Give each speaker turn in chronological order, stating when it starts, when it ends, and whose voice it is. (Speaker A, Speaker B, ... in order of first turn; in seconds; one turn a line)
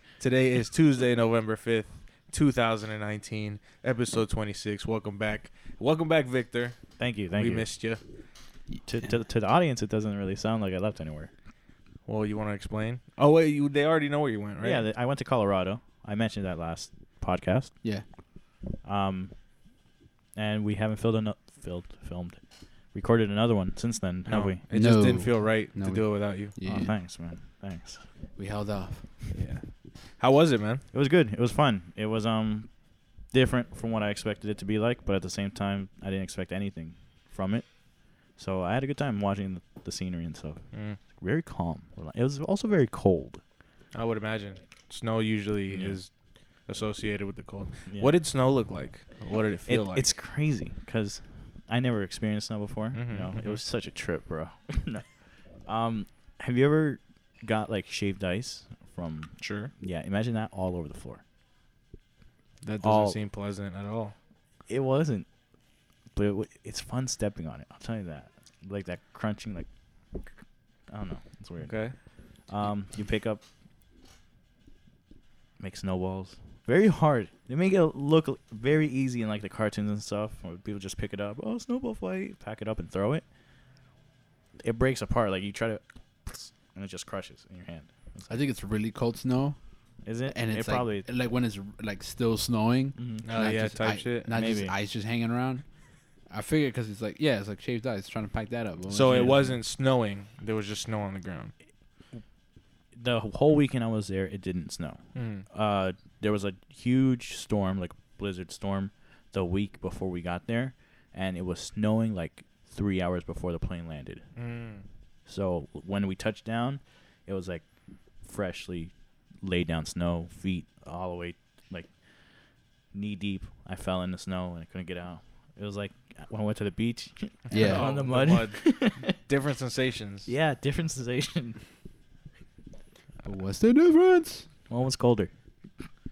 Speaker A: 0.2-6.8
Speaker B: 7.0-7.7
Speaker A: 7.4-8.0
Speaker C: 8.7-9.0
Speaker B: 8.8-11.3
Speaker A: 12.1-14.8
Speaker B: 14.6-17.7
Speaker B: 18.8-19.3
Speaker B: 20.3-22.4
Speaker B: 22.9-24.6
Speaker A: 24.3-26.6
Speaker C: 24.7-26.9
Speaker B: 26.6-28.0
Speaker C: 28.4-29.2
Speaker A: 29.3-29.6
Speaker A: 30.2-30.8
Speaker B: 30.9-32.7
Speaker B: 33.3-37.7
Speaker B: 38.4-43.4
Speaker A: 40.7-41.0
Speaker A: 43.9-46.1
Speaker B: 45.7-46.0
Speaker A: 46.7-50.1
Speaker B: 49.7-55.0
Speaker A: 52.9-53.6
Speaker B: 55.6-61.2
Speaker A: 59.4-59.7
Speaker A: 62.6-64.1
Speaker B: 62.8-63.2
Speaker B: 64.7-65.3
Speaker B: 66.1-69.7
Speaker B: 70.9-71.7
Speaker A: 71.6-71.9
Speaker B: 72.5-73.4
Speaker B: 75.6-83.2
Speaker B: 84.6-88.4
Speaker C: 88.3-89.5
Speaker B: 90.0-91.1
Speaker C: 90.3-95.6
Speaker B: 93.0-93.2
Speaker A: 93.2-94.3
Speaker B: 94.3-94.7
Speaker C: 96.3-99.6
Speaker A: 98.9-101.5
Speaker B: 102.9-114.2
Speaker A: 105.1-105.5
Speaker A: 114.3-114.8
Speaker B: 115.3-117.6
Speaker B: 118.2-121.9
Speaker B: 122.9-129.1
Speaker A: 127.5-130.3
Speaker C: 127.5-127.8
Speaker B: 130.3-131.6
Speaker C: 133.2-134.4
Speaker B: 134.7-135.3